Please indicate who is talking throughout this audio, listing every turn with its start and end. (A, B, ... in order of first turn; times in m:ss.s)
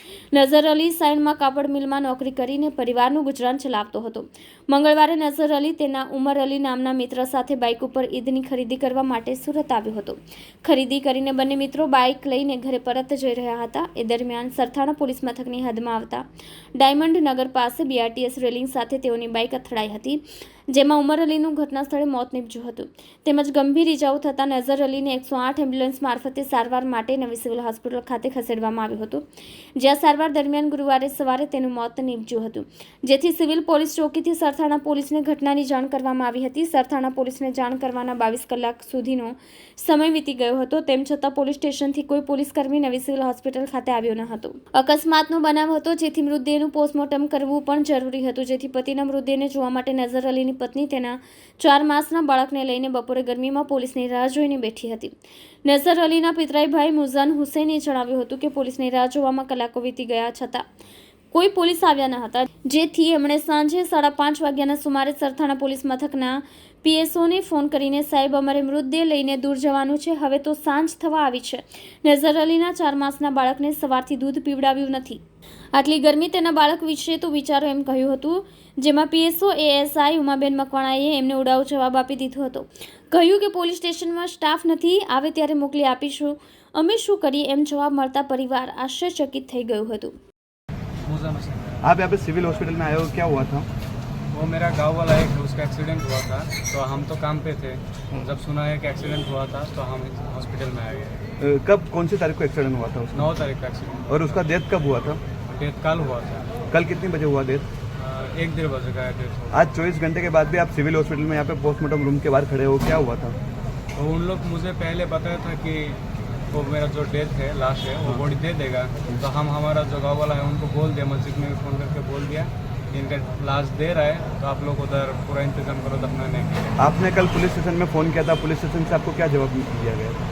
0:00.3-0:16.2 A
0:16.8-0:29.2 A
0:29.8-1:00.7 A
1:01.3-1:15.2 A
1:15.7-1:30.1 A
1:31.1-1:31.8 B
1:31.8-1:33.7 C
1:34.3-1:41.2 B
1:41.4-1:43.3 C
1:43.1-1:44.1 B
1:44.1-1:45.2 C
1:45.4-1:46.5 B
1:46.7-1:47.7 C
1:48.0-1:49.6 B
1:49.5-1:53.4 C
1:54.0-2:06.8 B
2:06.8-2:10.2 C